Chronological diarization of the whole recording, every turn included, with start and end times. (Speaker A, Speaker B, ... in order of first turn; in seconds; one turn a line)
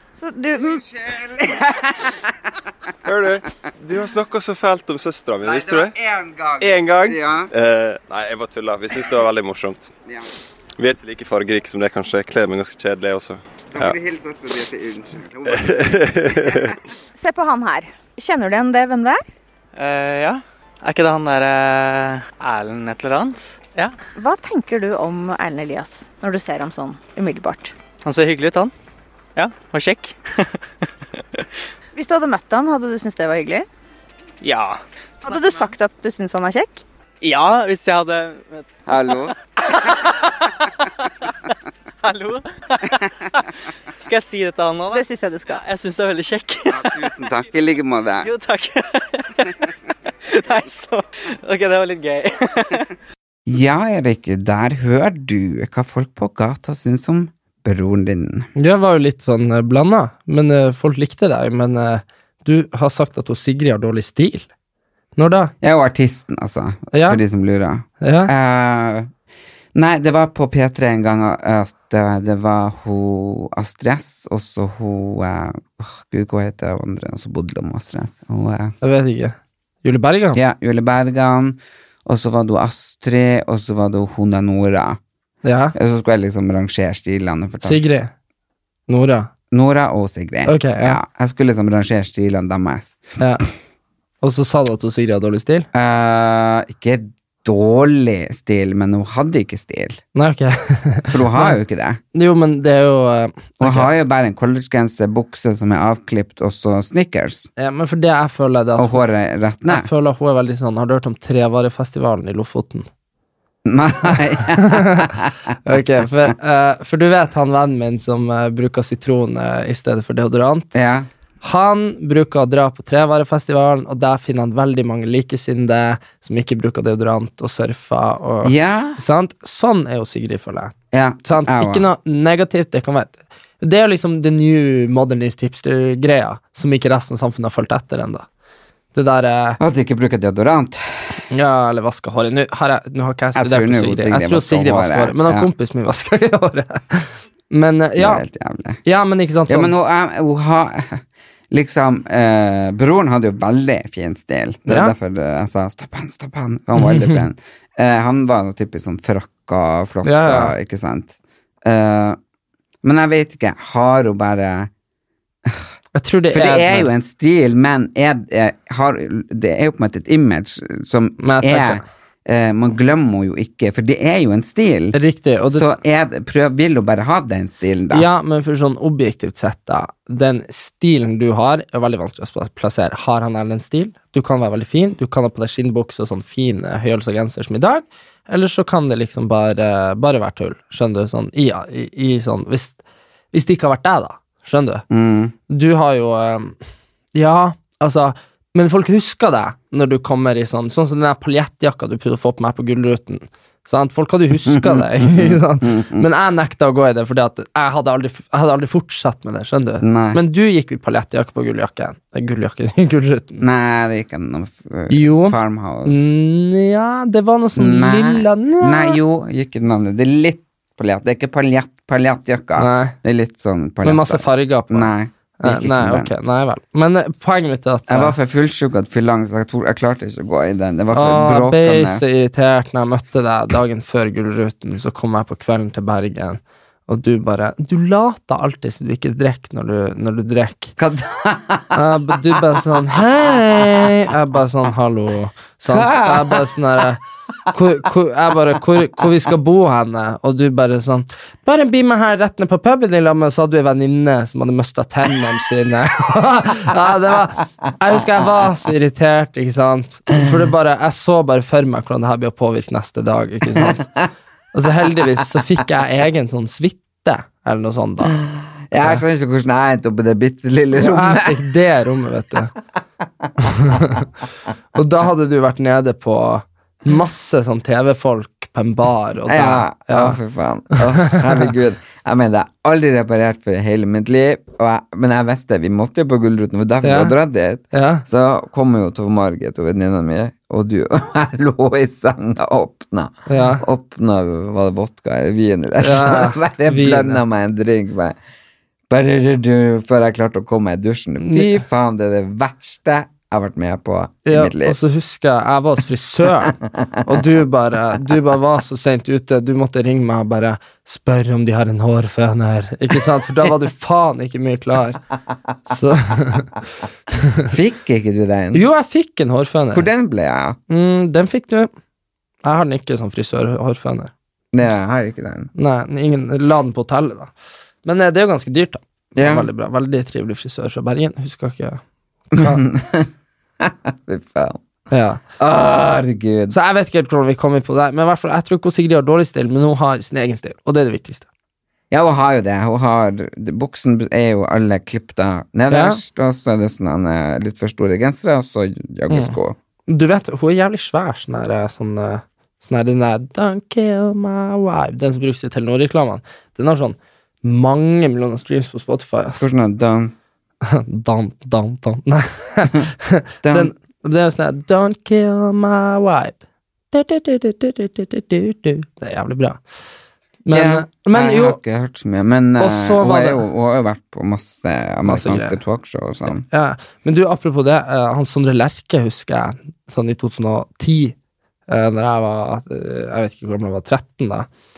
Speaker A: 0.2-0.8
Speaker B: 0.7-2.3
Speaker C: 3.0-6.0
Speaker B: 5.4-7.5
Speaker C: 6.6-9.9
Speaker C: 10.8-14.0
Speaker B: 13.7-16.7
Speaker C: 15.5-16.7
Speaker A: 17.1-19.2
Speaker D: 19.8-23.9
Speaker A: 24.2-27.7
Speaker D: 28.0-28.7
Speaker D: 29.4-30.6
Speaker D: 31.2-31.4
Speaker A: 31.9-33.7
Speaker D: 34.4-35.7
Speaker A: 35.2-36.8
Speaker D: 37.2-38.7
Speaker B: 38.9-39.4
Speaker D: 39.7-40.5
Speaker D: 42.0-43.0
Speaker D: 44.0-47.1
Speaker A: 44.9-45.6
Speaker B: 46.7-48.3
Speaker D: 48.2-49.5
Speaker D: 50.3-52.9
Speaker B: 53.5-58.5
Speaker E: 58.6-64.5
Speaker E: 65.2-65.5
Speaker B: 65.6-69.1
Speaker E: 66.9-67.2
Speaker E: 68.0-68.3
Speaker B: 69.8-78.7
Speaker E: 78.8-80.4
Speaker B: 80.3-85.0
Speaker E: 85.4-85.8
Speaker B: 85.8-87.8
Speaker E: 87.6-88.1
Speaker E: 88.9-89.3
Speaker B: 89.5-93.0
Speaker E: 90.5-91.0
Speaker E: 93.2-93.5
Speaker E: 94.2-95.7
Speaker B: 95.7-100.0
Speaker E: 100.2-101.6
Speaker B: 101.1-102.0
Speaker E: 102.1-103.9
Speaker B: 103.6-107.5
Speaker E: 107.6-109.0
Speaker B: 108.8-109.9
Speaker E: 109.7-112.9
Speaker B: 113.7-115.3
Speaker E: 114.6-115.1
Speaker E: 115.7-120.7
Speaker B: 120.7-121.1
Speaker E: 121.4-130.7
Speaker B: 128.4-129.0
Speaker B: 130.9-131.9
Speaker E: 131.2-138.3
Speaker E: 138.9-139.6
Speaker B: 139.6-141.1
Speaker E: 141.3-148.2
Speaker B: 143.4-145.5
Speaker B: 148.0-148.8
Speaker E: 148.8-149.7
Speaker B: 149.5-162.2
Speaker E: 154.7-154.9
Speaker E: 156.8-157.2
Speaker E: 160.0-160.5
Speaker B: 162.8-164.7
Speaker E: 165.9-166.9
Speaker B: 166.3-175.0
Speaker E: 171.2-171.8
Speaker E: 174.9-175.7
Speaker B: 175.5-178.1
Speaker E: 177.9-192.8
Speaker E: 193.3-194.8
Speaker B: 194.9-195.3
Speaker E: 195.5-196.6
Speaker E: 197.1-213.4
Speaker B: 204.4-206.1
Speaker B: 209.8-210.2
Speaker B: 213.4-216.2
Speaker E: 214.9-219.0
Speaker B: 217.6-226.1
Speaker E: 222.6-222.9
Speaker E: 223.8-224.9
Speaker E: 225.4-228.2
Speaker B: 227.9-232.1
Speaker E: 230.9-240.8
Speaker B: 240.8-241.8
Speaker E: 241.7-263.9
Speaker B: 245.7-246.5
Speaker B: 263.6-264.1
Speaker E: 264.5-268.1
Speaker B: 268.2-271.4
Speaker E: 270.8-272.5
Speaker E: 273.4-274.1
Speaker E: 274.7-280.2
Speaker B: 279.3-298.2
Speaker E: 286.8-287.1
Speaker E: 287.7-288.0
Speaker E: 293.3-293.6
Speaker E: 295.8-297.2
Speaker B: 298.9-304.8
Speaker E: 301.2-301.6
Speaker E: 304.3-315.0
Speaker E: 315.7-316.5
Speaker B: 317.5-318.7
Speaker E: 318.5-319.9
Speaker B: 319.7-320.6
Speaker E: 320.7-321.7
Speaker E: 322.4-324.1
Speaker B: 324.5-325.5
Speaker E: 325.6-327.3
Speaker E: 327.8-332.6
Speaker B: 329.2-329.5
Speaker B: 332.3-334.6
Speaker E: 334.9-335.2
Speaker B: 335.4-336.6
Speaker E: 336.5-341.2
Speaker B: 341.9-349.6
Speaker E: 345.7-346.0
Speaker E: 349.1-349.4
Speaker E: 349.9-359.4
Speaker B: 359.4-360.1
Speaker E: 360.7-366.4
Speaker B: 363.4-363.7
Speaker E: 366.9-369.6
Speaker E: 370.4-371.6
Speaker B: 370.5-376.4
Speaker E: 372.6-373.4
Speaker E: 375.1-375.6
Speaker E: 376.3-381.1
Speaker E: 381.7-384.5